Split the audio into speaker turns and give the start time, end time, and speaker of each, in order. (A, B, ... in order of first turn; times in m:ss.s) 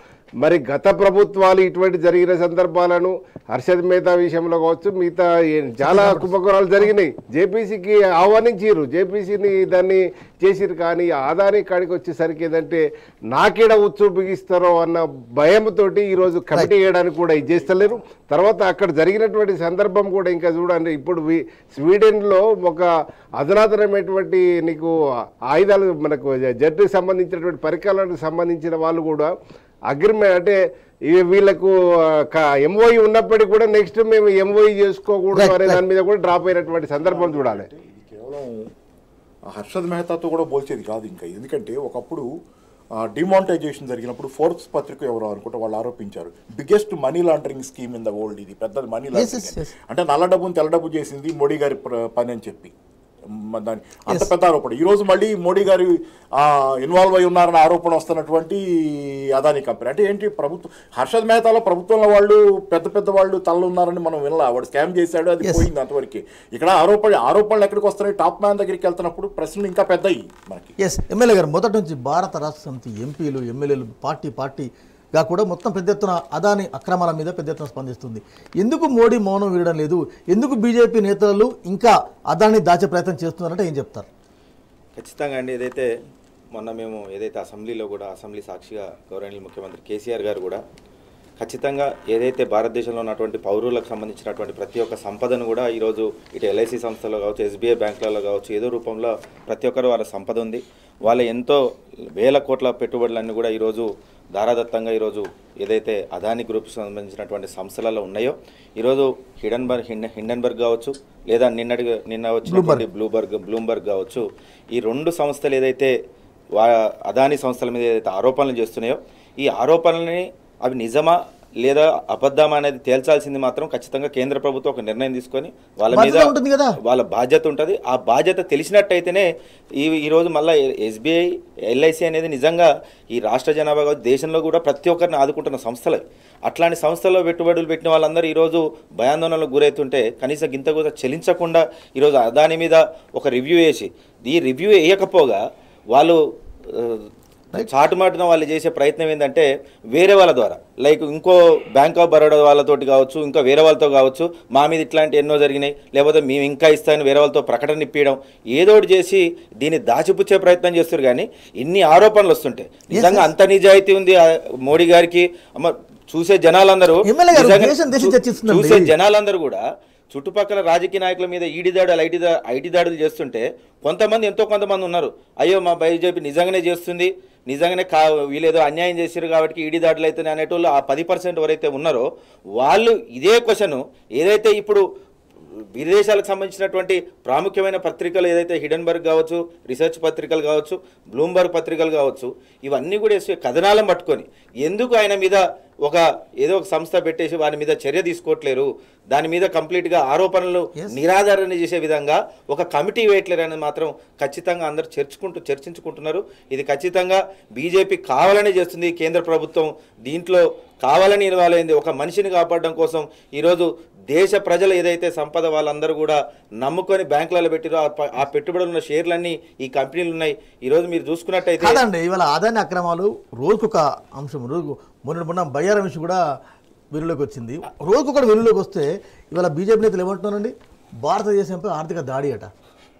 0:00.4-0:22.9 A
0:05.8-0:06.3 B
0:17.4-0:18.0 C
0:23.4-0:24.9 A
0:25.5-0:29.3 A
0:29.9-0:30.6 A
0:31.1-0:31.7 A
0:32.3-0:37.7 A
0:35.3-0:35.8 B
0:37.0-0:38.7 C
0:39.5-0:42.2 C
0:43.0-0:52.7 C
0:49.1-0:49.7 B
0:53.4-1:10.7 C
1:10.8-1:24.1 B
1:25.0-1:25.9 D
1:26.5-1:30.6 D
1:31.4-1:41.6 D
1:42.1-1:55.9 D
1:52.4-1:52.8 B
1:56.5-2:09.2 D
2:05.9-2:06.8 B
2:09.8-2:25.4 D
2:26.7-3:02.0 D
2:42.9-2:43.3 B
2:47.0-2:48.9 B
3:02.6-3:04.8 D
3:05.7-3:41.8 D
3:41.6-3:46.2 B
3:46.9-3:52.5 B